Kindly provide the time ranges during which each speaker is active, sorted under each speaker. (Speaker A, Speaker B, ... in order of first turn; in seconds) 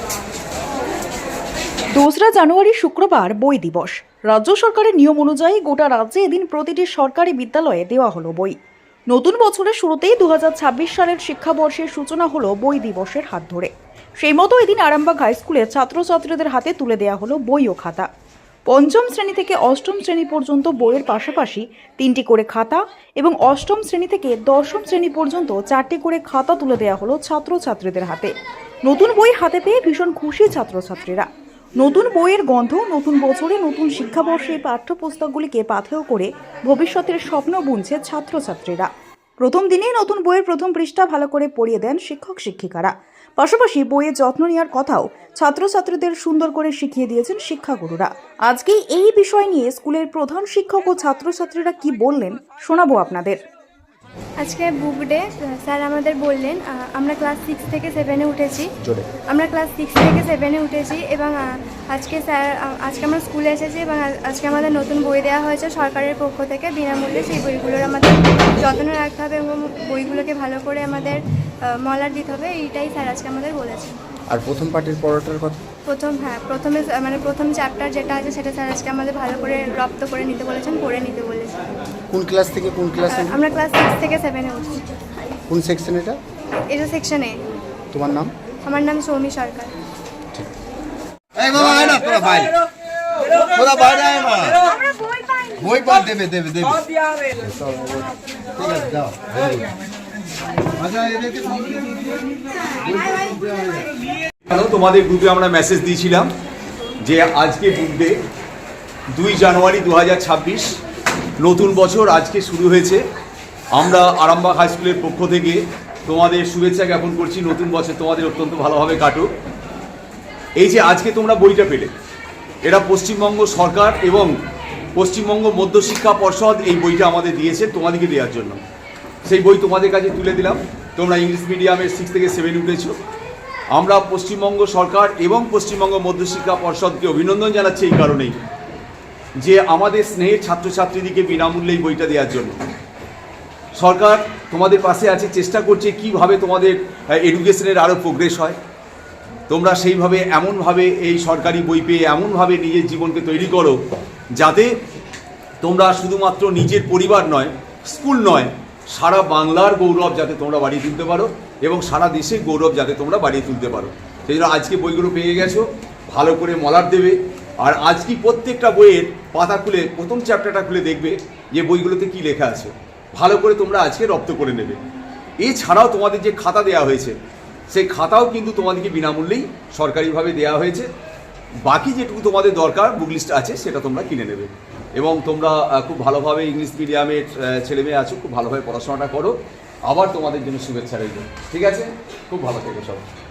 Speaker A: 1.9-8.6, 9.1-18.1, 18.7-28.3, 28.8-31.3, 31.8-53.4
Speaker B: 54.4-58.7, 59.3-71.2, 71.7-74.0, 75.9-81.6, 83.1-84.9, 86.7-87.3, 88.6-89.7
Speaker C: 58.8-59.1, 74.3-75.6, 82.1-83.4, 85.5-86.2, 87.9-88.3
Speaker D: 91.4-92.6, 93.2-94.6, 95.6-96.8, 98.6-99.6, 100.8-102.0, 102.7-103.8
Speaker E: 104.5-106.3, 107.0-108.1, 109.1-110.8, 111.4-113.0, 113.7-119.3, 120.6-121.9, 122.6-124.3, 124.9-128.6, 129.2-132.9, 133.7-138.4, 139.4-142.6, 143.7-148.6, 149.5-153.8, 154.3-154.7, 155.6-174.8, 175.4-177.2, 177.7-180.9, 181.7-189.3, 189.9-193.1